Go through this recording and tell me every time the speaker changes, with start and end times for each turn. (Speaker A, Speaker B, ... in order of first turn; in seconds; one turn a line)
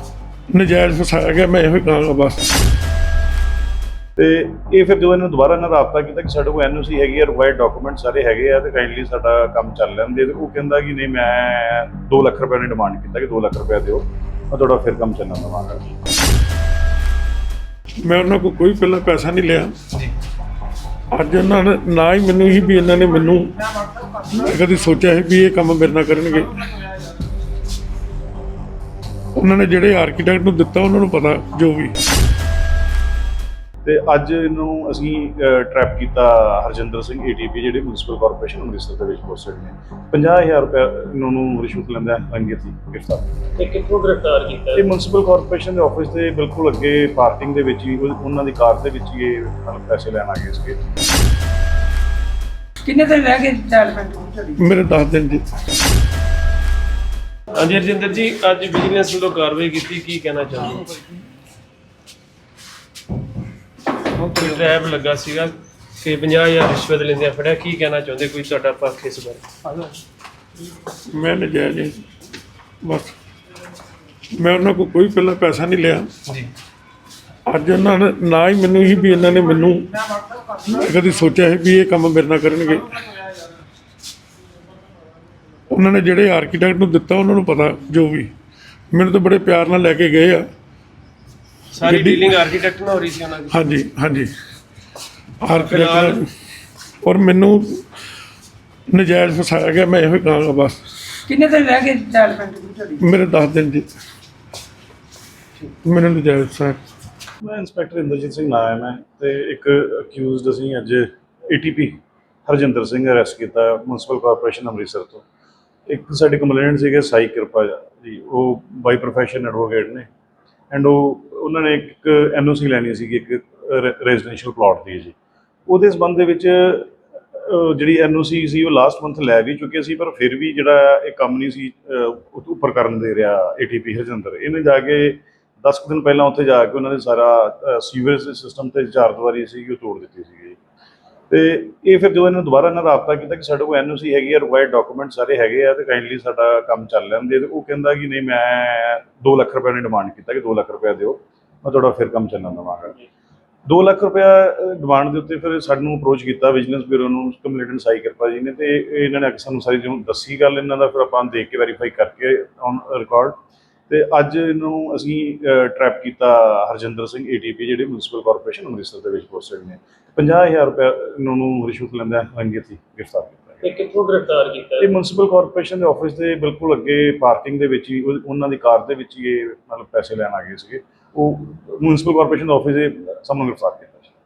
Speaker A: 0.5-2.4
Speaker B: 4.2-15.9
Speaker A: 18.0-19.8
Speaker A: 21.1-23.6
Speaker A: 24.2-26.6
Speaker A: 29.4-31.9
Speaker B: 33.8-43.3
Speaker C: 43.6-44.9
Speaker B: 44.7-50.8
Speaker D: 52.8-54.6
Speaker A: 54.6-55.4
Speaker C: 57.5-60.9
Speaker C: 64.2-69.8
Speaker A: 71.1-72.0
Speaker A: 72.8-73.1
Speaker A: 74.4-76.1
Speaker A: 77.5-80.0
Speaker A: 80.6-83.0
Speaker A: 85.7-88.3
Speaker A: 88.9-90.5
Speaker C: 91.7-93.6
Speaker A: 91.8-92.2
Speaker A: 93.5-94.3
Speaker A: 95.4-96.3
Speaker C: 95.5-96.2
Speaker A: 97.0-97.8
Speaker A: 98.9-101.2
Speaker D: 101.3-103.0
Speaker A: 103.0-103.8
Speaker A: 105.8-106.8
Speaker B: 107.4-115.2
Speaker B: 115.9-120.1
Speaker B: 120.7-125.1
Speaker B: 125.7-140.6
Speaker B: 141.3-152.9
Speaker B: 153.7-163.4
Speaker B: 163.9-173.7
Speaker C: 173.6-174.9
Speaker B: 174.8-184.1